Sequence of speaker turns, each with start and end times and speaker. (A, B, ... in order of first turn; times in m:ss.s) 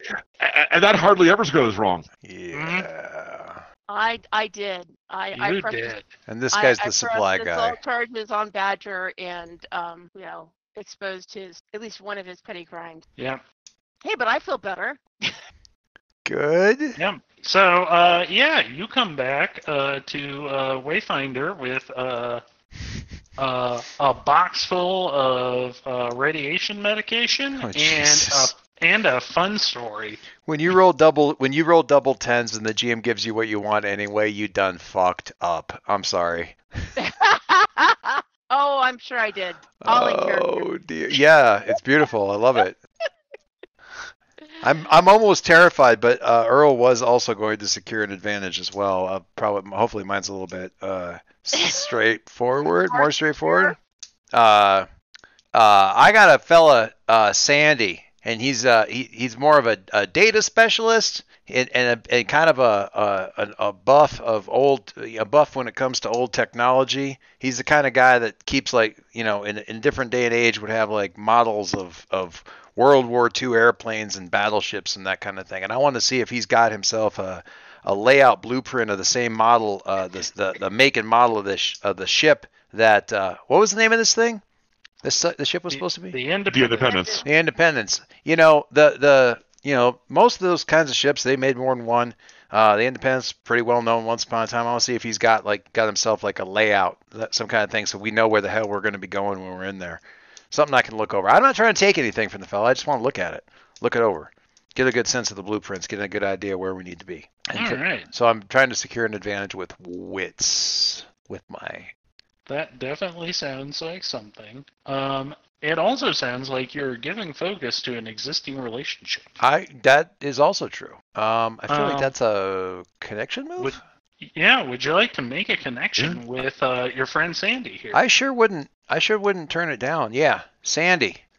0:00.4-0:02.1 A
0:02.2-0:03.6 B
0:02.5-0:02.9 C
0:03.9-0:06.0 D
0:05.3-0:06.1 C
0:06.3-0:07.8 B
0:06.5-0:13.0 D
0:13.2-0:13.4 C
0:14.0-0:15.4 D
0:16.2-0:17.0 B
0:17.0-0:22.4 C
0:23.4-0:30.2 C
0:27.6-0:28.5 B
0:30.4-0:36.9 B
0:37.0-0:40.7 D
0:39.8-0:42.8 B
0:44.6-0:53.8 B
0:51.6-0:51.9 D
0:52.9-0:53.8 D
0:54.3-0:54.9 B
0:55.5-1:24.4 B
1:25.0-1:26.2 B
1:25.7-1:27.1 C
1:26.5-1:27.2 A
1:26.9-1:27.3 D
1:27.2-1:51.9 B
1:47.6-1:48.1 C
1:52.5-1:59.4 C
1:59.4-2:03.8 B
2:01.7-2:02.1 C
2:03.6-2:08.0 C
2:07.9-2:11.2 B